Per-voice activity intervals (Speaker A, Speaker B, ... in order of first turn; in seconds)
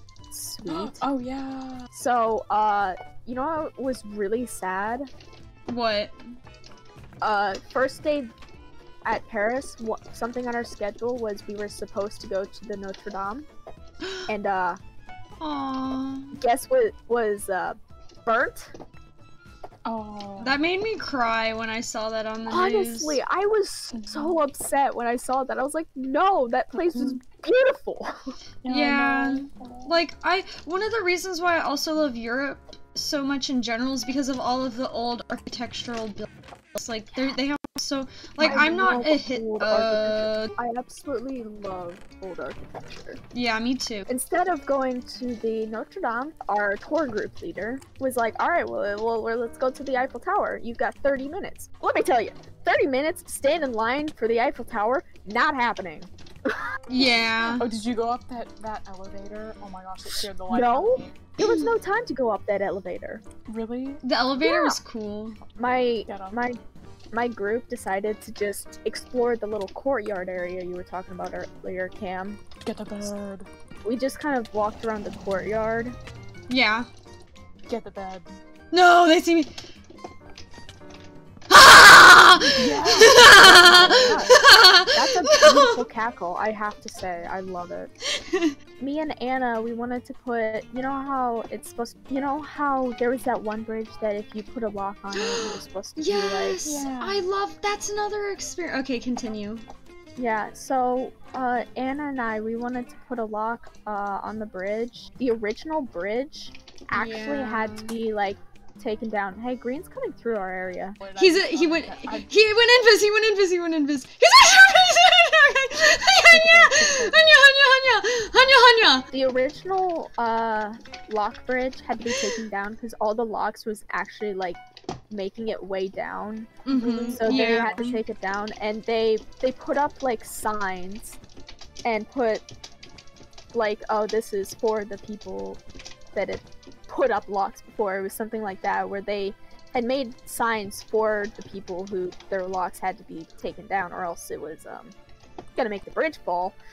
Speaker A: 0.3-1.0, 1.9-5.1, 7.2-8.3, 9.0-13.5, 14.3-14.8, 16.4-18.7, 22.5-28.2, 38.4-43.2, 44.1-56.6, 60.5-63.2, 64.4-64.8, 65.6-66.6, 67.1-72.4, 73.8-76.0, 83.3-84.3, 84.9-87.9, 88.8-96.6, 100.2-111.0, 119.1-126.6, 127.1-131.2, 131.8-132.4, 133.5-135.6, 136.1-144.9, 145.6-146.5
Speaker B: 0.6-1.9, 19.8-20.6, 23.9-24.4, 28.6-29.9, 57.6-61.2, 63.4-64.0, 66.1-66.4, 72.6-73.5, 77.7-78.4, 82.4-84.5, 96.6-97.2, 111.0-112.4, 116.3-117.2, 126.7-127.8
Speaker C: 5.7-6.1, 14.0-14.3, 15.4-16.4, 20.4-23.2, 28.7-40.5, 43.3-44.1, 56.9-57.7, 61.4-61.7, 64.0-65.4, 76.5-76.9, 78.7-79.5, 81.5-85.8, 88.2-88.5, 95.2-99.6, 106.9-108.0, 111.2-119.1, 126.7-128.0